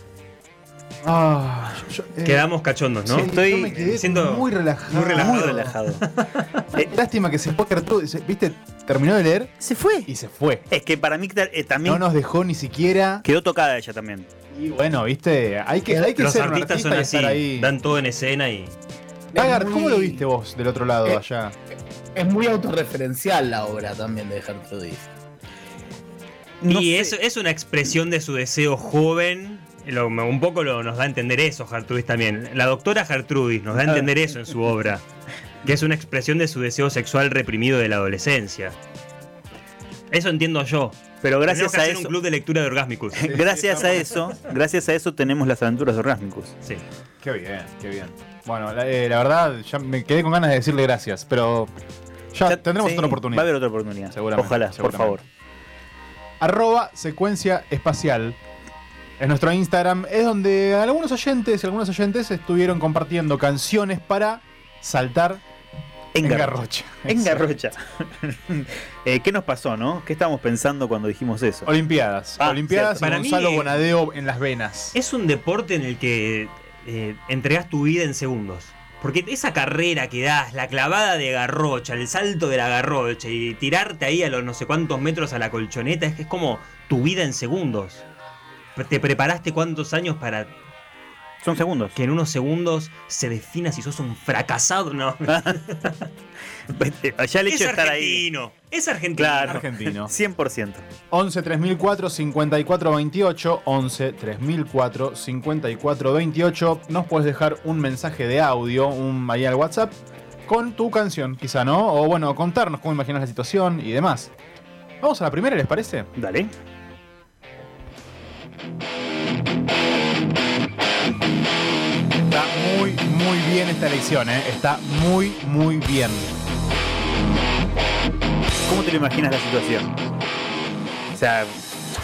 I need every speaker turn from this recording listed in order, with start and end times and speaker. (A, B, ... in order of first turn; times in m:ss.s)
0:01.0-0:02.5 A
0:02.2-0:03.3 B
0:03.0-0:05.8 A
0:03.1-0:03.8 C
0:03.8-0:06.5 B
0:05.0-0:06.0 C
0:06.8-0:09.5 A
0:09.6-0:10.1 C
0:10.1-0:10.7 A
0:10.7-0:12.0 C
0:11.8-0:13.2 A
0:13.2-0:14.3 C
0:14.5-0:17.7 A
0:16.1-0:18.8 B
0:19.3-0:20.2 D
0:19.4-0:21.6 A
0:22.2-0:25.1 D
0:26.6-0:27.2 C
0:26.7-0:35.0 B
0:33.8-0:34.1 C
0:35.6-0:38.8 B
0:40.1-0:43.4 B
0:41.2-0:42.2 C
0:43.1-0:46.5 C
0:43.2-0:44.2 A
0:47.2-0:51.7 A
0:52.3-0:53.5 A
0:52.5-0:55.2 C
0:54.1-0:55.2 A
0:56.4-0:58.4 A
0:59.2-1:05.4 A
1:06.1-1:11.7 C
1:06.2-1:07.5 A
1:11.7-1:15.0 A
1:12.4-1:13.2 C
1:13.0-1:13.9 B
1:14.9-1:28.0 B
1:28.8-1:30.5 B
1:31.4-1:32.0 C
1:32.0-1:36.1 B
1:35.3-1:35.6 C
1:36.7-1:38.3 C
1:37.4-1:39.6 B
1:39.2-1:40.9 C
1:39.4-1:40.1 A
1:41.1-1:50.0 A
1:50.5-1:54.3 A
1:55.0-1:56.1 A
1:56.2-1:56.5 C
2:02.2-2:06.3 A
2:08.7-2:10.0 C
2:11.1-2:11.6 C